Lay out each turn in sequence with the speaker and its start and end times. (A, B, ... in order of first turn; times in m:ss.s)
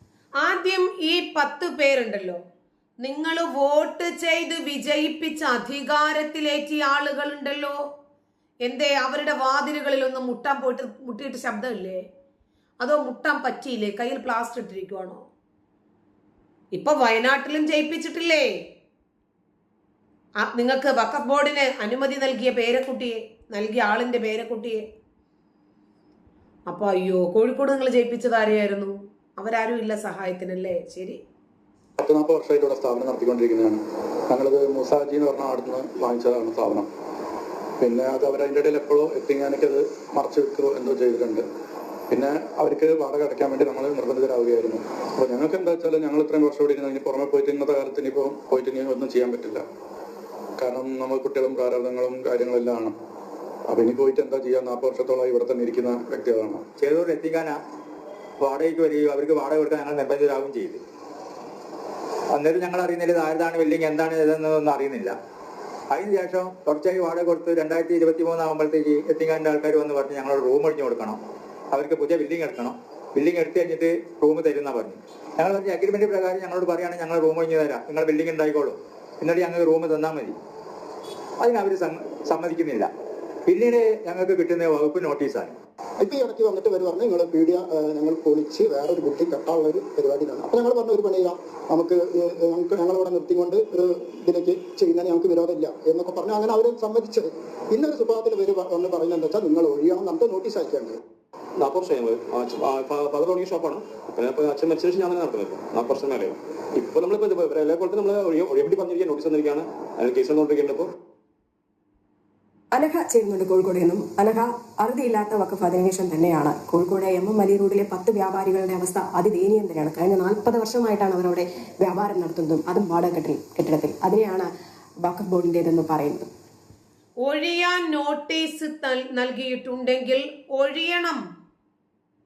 0:00.4-0:02.4 A
0:03.0-0:07.8 A
0:08.6-0:12.0 A
0:12.8-0:15.2 A
0:16.7-0:18.5 A
0:20.4-0:24.8 A
0:26.7-0:31.2 A
0:32.0-0:36.9 B
0:37.8-0:41.4 B
0:42.1-0:49.6 B
0:50.6-0:52.9 B
0:53.7-0:56.6 B
0:56.8-0:57.6 C
0:58.4-1:00.8 C
1:02.3-1:05.2 C
1:05.9-1:11.2 C
1:11.7-1:20.4 C
1:21.4-1:22.9 C
1:23.5-1:25.6 C
1:26.0-1:41.0 D
1:41.6-1:50.9 E
1:52.7-2:04.5 F
2:05.0-2:06.3 F
2:07.2-2:11.2 A